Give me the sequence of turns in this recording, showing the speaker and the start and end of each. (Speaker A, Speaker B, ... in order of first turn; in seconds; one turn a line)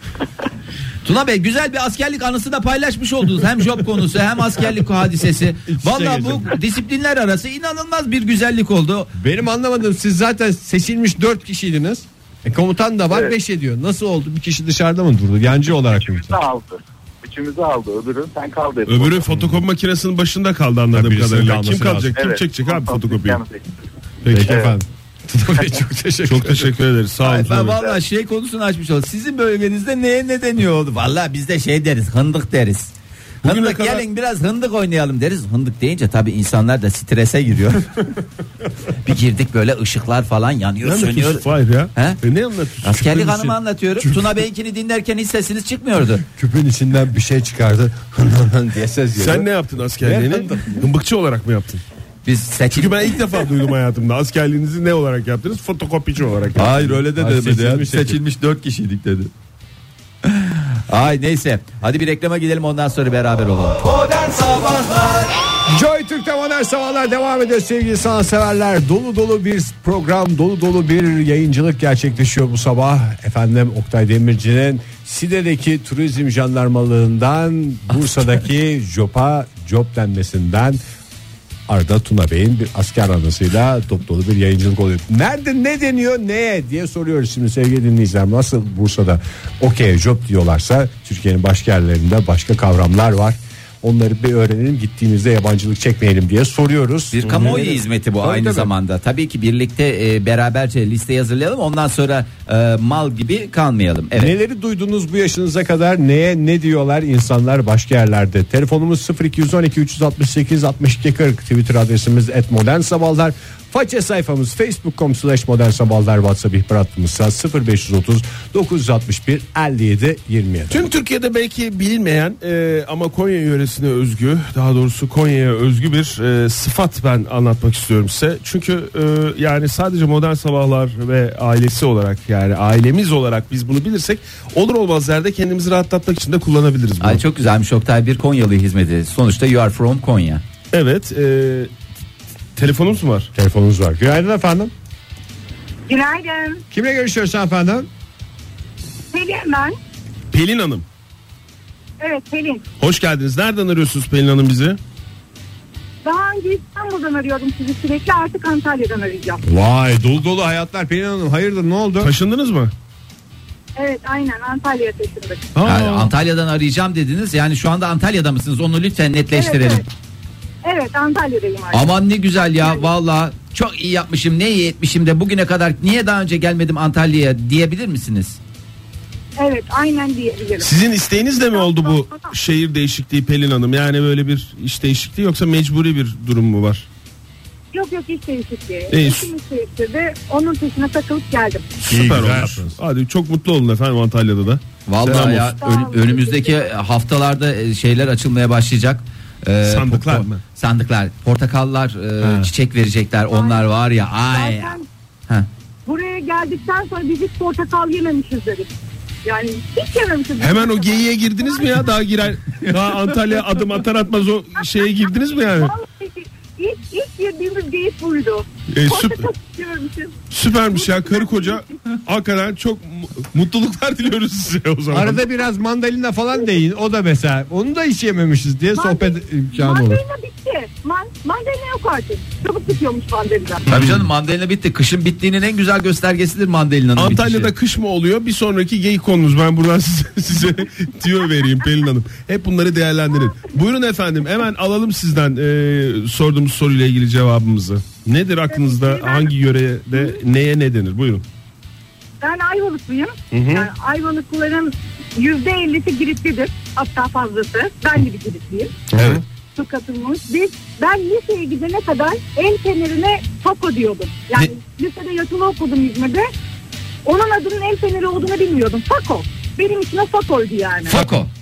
Speaker A: 1.1-9.1
Speaker B: 5.7-6.6
Speaker B: 9.1-16.4
Speaker C: 16.0-19.3
Speaker D: 18.9-23.4
Speaker B: 20.9-22.1
Speaker C: 22.1-23.6
Speaker D: 24.2-24.5
Speaker B: 24.3-26.7
Speaker C: 24.5-24.8
Speaker D: 26.2-27.9
Speaker A: 27.2-32.9
Speaker D: 33.4-34.0
Speaker A: 33.4-37.9
Speaker A: 39.0-42.2
Speaker D: 40.8-43.6
Speaker A: 42.8-46.2
Speaker B: 46.4-49.5
Speaker D: 49.2-51.8
Speaker B: 50.0-50.9
Speaker A: 52.2-53.1
Speaker D: 52.7-57.0
Speaker A: 56.6-59.3
Speaker B: 56.9-58.2
Speaker A: 60.2-65.3
Speaker B: 65.7-80.8
Speaker B: 81.7-98.7
Speaker A: 97.1-104.4
Speaker B: 104.2-120.8
Speaker D: 120.7-137.2
Speaker A: 137.0-140.4
Speaker D: 140.7-141.7
Speaker D: 142.6-143.3
Speaker B: 143.3-144.7
Speaker E: 145.9-146.6
Speaker B: 146.7-147.9
Speaker E: 149.1-149.8
Speaker D: 150.3-150.8
Speaker E: 152.0-152.6
Speaker D: 152.8-154.8
Speaker E: 156.0-159.4
Speaker B: 159.4-162.1
Speaker D: 162.0-162.7
Speaker E: 163.8-165.5
Speaker D: 165.6-166.1
Speaker A: 165.6-169.8
Speaker E: 169.3-169.8
Speaker E: 170.6-172.9
Speaker A: 171.7-178.4
Speaker E: 179.4-180.7
Speaker D: 180.6-186.9
Speaker E: 181.5-182.3
Speaker E: 187.7-191.7
Speaker D: 188.9-189.3
Speaker D: 191.8-195.5
Speaker B: 191.9-192.7
Speaker A: 194.9-204.8
Speaker E: 195.6-196.8
Speaker D: 199.6-200.4
Speaker D: 202.2-202.5
Speaker E: 203.3-203.7
Speaker E: 204.2-204.9
Speaker E: 205.9-208.7
Speaker E: 209.2-211.8
Speaker D: 210.4-215.8
Speaker A: 212.6-213.1
Speaker E: 215.5-221.7
Speaker D: 218.7-219.3
Speaker D: 220.3-225.2
Speaker B: 224.9-230.0
Speaker E: 228.8-233.7
Speaker D: 233.7-234.1
Speaker A: 233.7-237.5
Speaker D: 237.0-251.2
Speaker E: 248.5-249.3
Speaker E: 249.9-250.2
Speaker E: 252.2-258.8
Speaker D: 253.3-253.7
Speaker B: 258.9-259.2
Speaker D: 259.0-259.2
Speaker E: 259.6-266.3
Speaker E: 267.1-271.0
Speaker A: 270.9-271.3
Speaker D: 270.9-271.2